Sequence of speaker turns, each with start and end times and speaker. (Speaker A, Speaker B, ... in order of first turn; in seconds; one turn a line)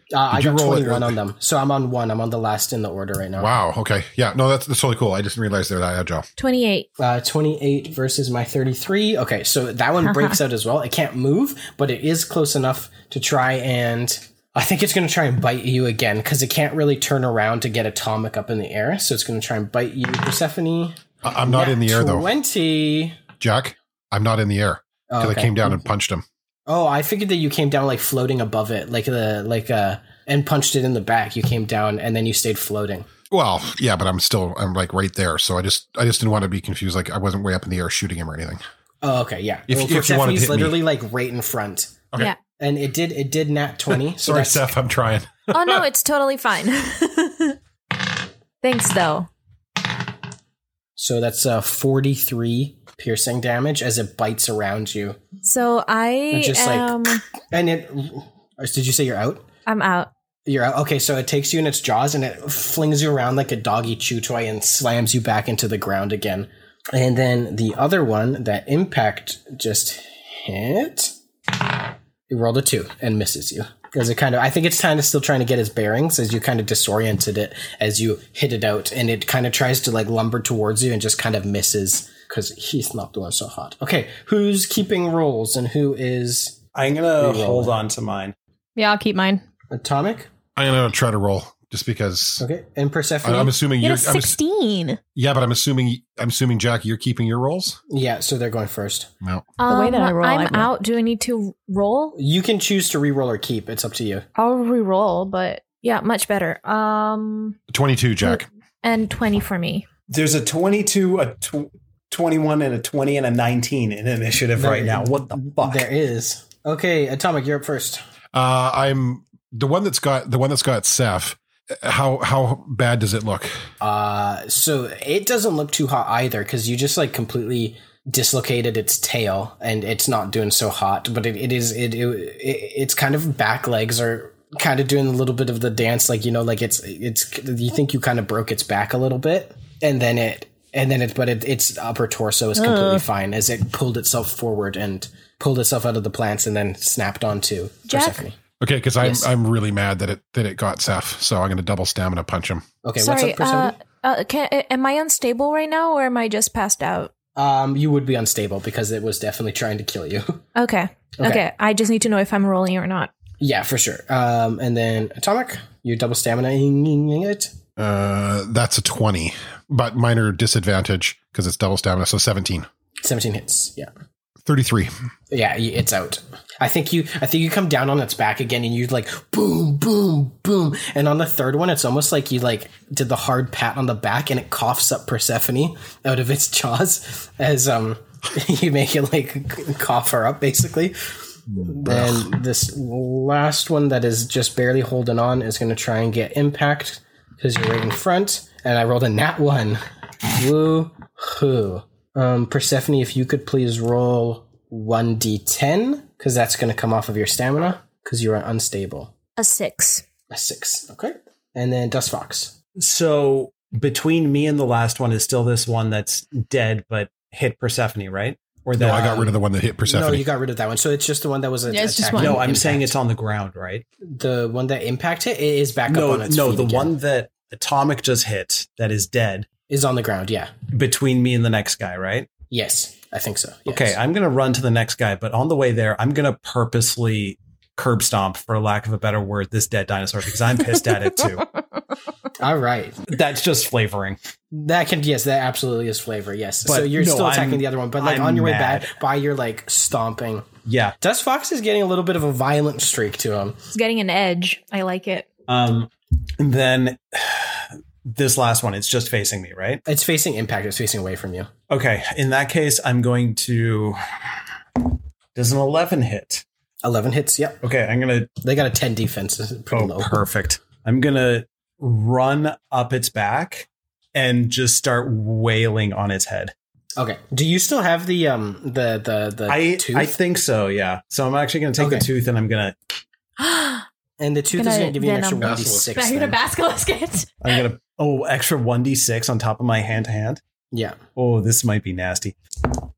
Speaker A: 0.1-3.5
Speaker B: 0.3-1.2
Speaker B: 3.4-6.3
Speaker C: 6.4-6.9
Speaker A: 7.0-23.2
Speaker B: 21.2-22.3
Speaker B: 23.4-26.2
Speaker A: 25.1-25.8
Speaker A: 26.7-33.1
Speaker B: 33.3-38.6
Speaker A: 39.0-44.7
Speaker B: 39.7-40.8
Speaker B: 44.0-45.9
Speaker C: 45.5-47.6
Speaker C: 48.6-49.3
Speaker A: 51.0-55.2
Speaker C: 55.4-57.2
Speaker A: 56.3-59.5
Speaker C: 59.7-60.1
Speaker A: 60.5-71.1
Speaker A: 72.3-86.6
Speaker D: 86.8-88.3
Speaker A: 87.2-87.8
Speaker E: 88.8-89.4
Speaker A: 89.7-90.3
Speaker B: 90.6-92.5
Speaker A: 92.4-93.5
Speaker B: 93.2-94.4
Speaker E: 93.8-95.0
Speaker B: 95.2-97.8
Speaker A: 97.9-99.1
Speaker E: 99.7-100.7
Speaker C: 99.7-102.2
Speaker A: 102.2-104.2
Speaker C: 104.4-107.6
Speaker B: 107.7-108.5
Speaker C: 108.2-109.9
Speaker D: 110.1-115.9
Speaker A: 114.6-118.0
Speaker B: 118.3-123.5
Speaker A: 123.8-148.4
Speaker E: 142.6-143.0
Speaker C: 147.9-148.2
Speaker B: 148.6-152.7
Speaker A: 149.0-149.3
Speaker A: 152.8-153.8
Speaker C: 153.0-157.1
Speaker A: 157.4-160.4
Speaker C: 160.6-163.1
Speaker A: 161.2-161.4
Speaker A: 163.4-167.5
Speaker B: 167.8-172.7
Speaker A: 173.0-173.9
Speaker B: 174.4-174.9
Speaker A: 175.3-191.0
Speaker A: 191.6-199.8
Speaker B: 191.8-192.3
Speaker A: 200.4-209.1
Speaker C: 209.4-210.0
Speaker A: 210.3-212.6
Speaker D: 212.8-219.2
Speaker B: 218.8-220.3
Speaker A: 218.8-219.3
Speaker A: 219.9-222.9
Speaker E: 221.7-222.4
Speaker D: 222.1-223.9
Speaker A: 224.0-226.9
Speaker D: 225.9-229.5
Speaker A: 229.7-230.5
Speaker D: 230.7-232.3
Speaker A: 232.5-234.0
Speaker D: 233.7-241.5
Speaker A: 242.4-243.1
Speaker D: 243.1-244.2
Speaker A: 244.5-250.5
Speaker D: 246.7-249.0
Speaker D: 250.7-251.0
Speaker A: 251.0-253.6
Speaker C: 253.7-255.3
Speaker D: 255.5-259.8
Speaker A: 259.9-261.5
Speaker D: 261.7-264.0
Speaker D: 264.8-266.4
Speaker A: 266.8-267.6
Speaker D: 267.6-268.3
Speaker A: 268.4-270.2
Speaker D: 269.7-276.5
Speaker A: 277.0-280.1
Speaker D: 279.5-282.8
Speaker A: 281.8-282.1
Speaker E: 283.4-283.7
Speaker A: 284.2-286.4
Speaker E: 284.6-287.6
Speaker B: 285.4-285.9
Speaker D: 287.4-290.4
Speaker A: 290.7-291.0
Speaker D: 291.2-292.8